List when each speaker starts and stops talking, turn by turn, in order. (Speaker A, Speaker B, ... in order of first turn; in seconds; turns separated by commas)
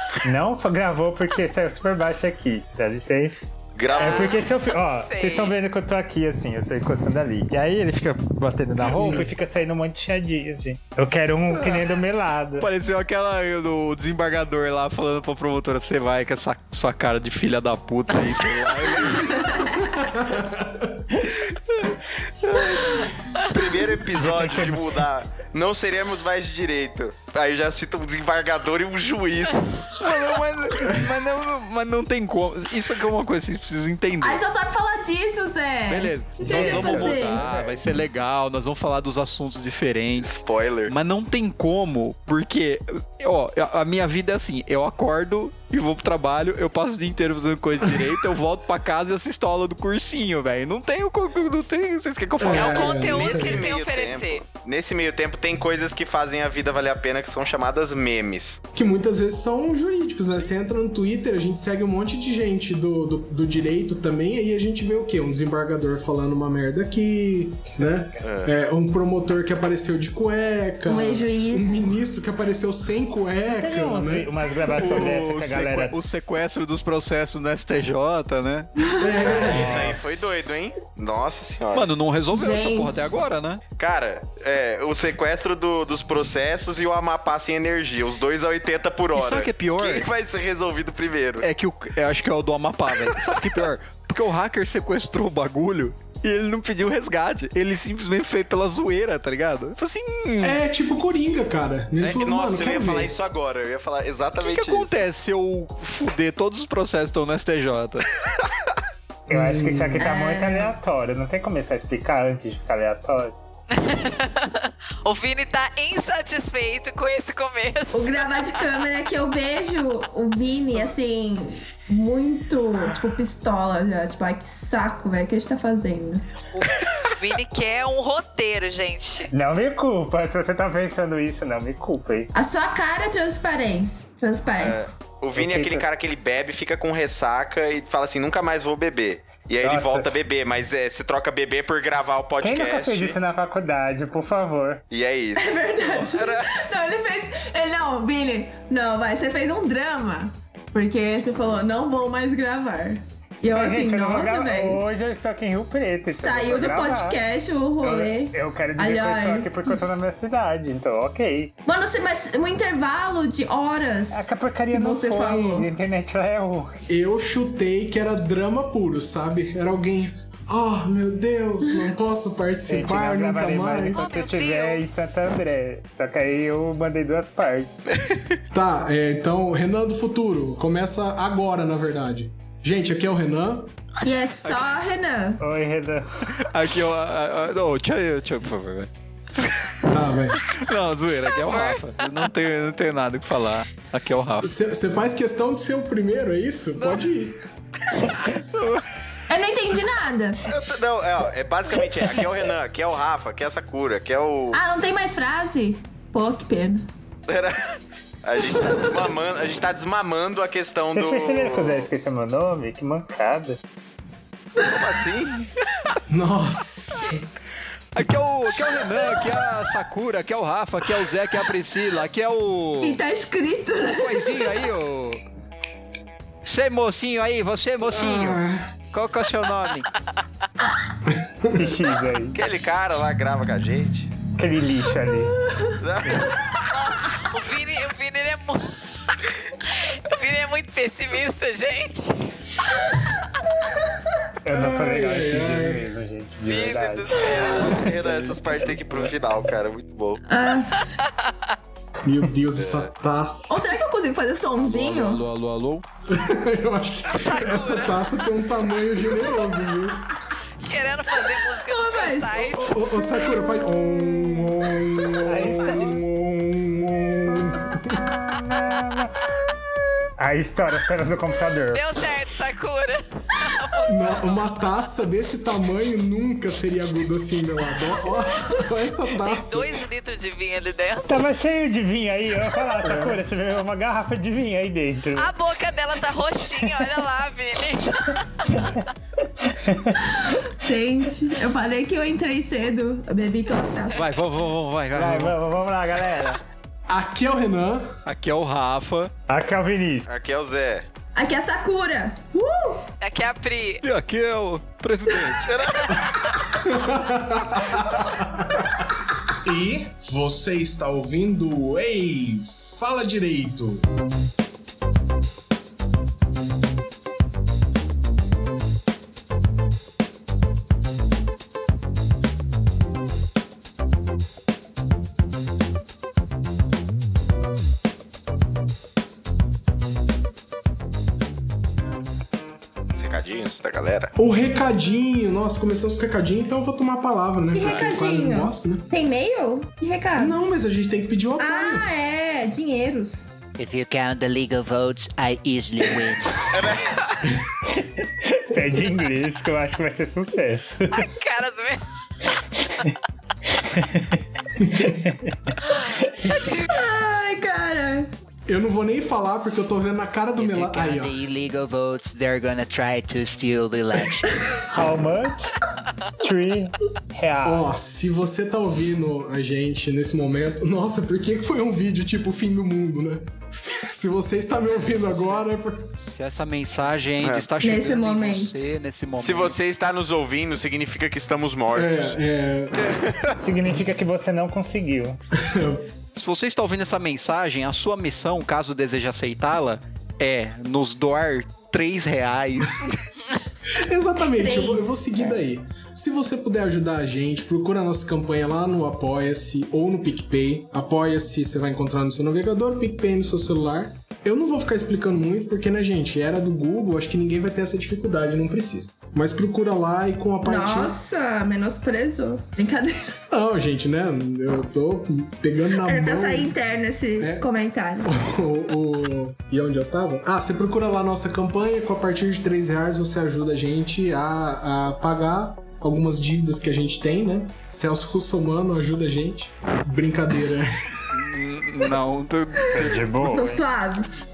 Speaker A: 0.2-3.4, Speaker B: 3.8-4.4, Speaker C: 3.9-5.5, Speaker A: 4.0-12.7, Speaker D: 8.9-9.3, Speaker E: 11.5-11.9, Speaker E: 12.6-19.8, Speaker F: 19.3-19.7, Speaker D: 20.0-21.0, Speaker B: 22.4-30.0, Speaker A: 24.2-24.8, Speaker E: 29.9-34.4, Speaker F: 34.2-37.5, Speaker E: 35.9-53.1, Speaker A: 36.4-37.8, Speaker B: 40.2-40.9, Speaker D: 52.4-53.7, Speaker C: 52.4-54.4, Speaker B: 52.4-58.6, Speaker D: 58.7-74.3, Speaker B: 68.2-68.5, Speaker F: 70.9-71.9, Speaker A: 73.6-76.0, Speaker E: 74.7-78.7, Speaker F: 78.8-79.1, Speaker D: 79.0-80.0, Speaker B: 79.2-82.0, Speaker E: 81.7-83.6, Speaker F: 82.3-83.2, Speaker B: 83.8-91.5, Speaker E: 89.1-90.1, Speaker E: 91.4-100.6, Speaker B: 93.1-93.4, Speaker D: 100.4-103.1, Speaker B: 102.0-105.0, Speaker E: 104.4-108.0, Speaker A: 109.3-113.3, Speaker D: 109.3-110.0, Speaker F: 110.0-110.7, Speaker C: 113.7-118.7, Speaker F: 117.9-126.3, Speaker C: 126.5-129.3, Speaker A: 129.3-132.3, Speaker F: 132.3-134.9, Speaker B: 134.6-143.2, Speaker A: 135.3-135.9, Speaker A: 139.6-140.1, Speaker A: 142.4-144.8, Speaker B: 144.9-146.5, Speaker F: 145.3-154.8, Speaker A: 153.5-157.2, Speaker F: 156.1-159.8, Speaker A: 157.8-161.5, Speaker F: 161.7-165.7, Speaker A: 164.1-166.8, Speaker D: 166.9-174.1, Speaker A: 172.7-177.7, Speaker C: 173.9-175.1, Speaker D: 178.5-183.7, Speaker F: 184.0-185.4, Speaker E: 184.4-184.7, Speaker A: 185.4-186.1, Speaker E: 186.3-194.5, Speaker D: 189.9-190.4, Speaker C: 191.3-192.3, Speaker D: 194.4-197.4, Speaker E: 196.8-197.0, Speaker E: 198.1-198.8, Speaker F: 199.3-200.5, Speaker B: 200.4-204.6, Speaker F: 204.5-206.9, Speaker B: 207.3-211.9, Speaker A: 210.9-213.6, Speaker B: 214.6-216.0, Speaker D: 216.1-217.3, Speaker E: 217.9-223.0, Speaker F: 222.8-224.5, Speaker E: 223.8-225.2, Speaker E: 226.4-229.9, Speaker D: 227.9-228.7, Speaker D: 231.1-231.7, Speaker A: 231.5-232.4, Speaker B: 232.3-234.1, Speaker A: 234.4-235.3, Speaker B: 235.8-236.5, Speaker C: 237.0-238.8, Speaker C: 239.6-242.7, Speaker A: 244.4-247.3, Speaker D: 244.5-245.9, Speaker C: 246.4-247.8, Speaker B: 247.3-250.2, Speaker F: 250.3-250.9, Speaker C: 250.8-251.3, Speaker D: 252.0-253.6, Speaker B: 252.5-252.9, Speaker F: 253.5-255.2, Speaker E: 254.5-255.8, Speaker D: 256.1-260.1, Speaker C: 257.1-258.1, Speaker C: 260.6-262.8, Speaker F: 261.6-262.6, Speaker D: 262.4-268.0, Speaker A: 265.2-266.0, Speaker E: 265.6-266.0, Speaker A: 267.9-269.1, Speaker A: 270.2-271.8, Speaker C: 271.7-274.3, Speaker D: 273.8-279.8, Speaker C: 279.2-281.2, Speaker A: 281.1-285.3, Speaker D: 282.8-283.2, Speaker C: 285.1-288.8, Speaker A: 289.4-290.1, Speaker F: 290.6-294.1, Speaker E: 293.9-295.3, Speaker A: 294.9-296.4, Speaker D: 296.9-297.9, Speaker E: 298.1-299.1, Speaker A: 299.3-300.1, Speaker B: 300.1-300.9, Speaker F: 301.1-302.9, Speaker C: 303.0-303.8, Speaker E: 303.8-305.7, Speaker B: 305.4-306.3, Speaker D: 306.6-308.7, Speaker D: 309.3-313.9, Speaker B: 332.9-334.1, Speaker D: 334.1-338.9, Speaker F: 337.5-340.4, Speaker B: 337.6-338.0, Speaker D: 340.2-341.9, Speaker F: 341.4-343.3, Speaker G: 343.6-346.4, Speaker B: 346.4-347.1, Speaker A: 347.7-351.1, Speaker C: 350.9-351.8, Speaker A: 353.5-355.6, Speaker D: 354.6-354.9, Speaker C: 355.7-356.7, Speaker F: 356.6-358.1, Speaker D: 358.5-361.1, Speaker G: 360.4-364.3, Speaker A: 364.7-365.6, Speaker A: 366.2-367.6, Speaker D: 367.4-375.9, Speaker E: 374.7-375.4, Speaker E: 376.0-379.6, Speaker B: 377.2-377.5, Speaker F: 377.6-378.6, Speaker B: 379.2-382.1, Speaker D: 381.7-383.0, Speaker B: 382.9-383.3, Speaker A: 383.4-385.2, Speaker D: 385.3-385.9, Speaker E: 386.1-393.0, Speaker D: 393.7-411.0, Speaker F: 394.3-395.4, Speaker F: 410.4-413.1, Speaker D: 413.3-416.6, Speaker F: 415.8-418.1, Speaker D: 417.2-417.5, Speaker D: 418.0-431.1, Speaker E: 431.1-433.0, Speaker A: 432.7-433.6, Speaker F: 432.8-434.1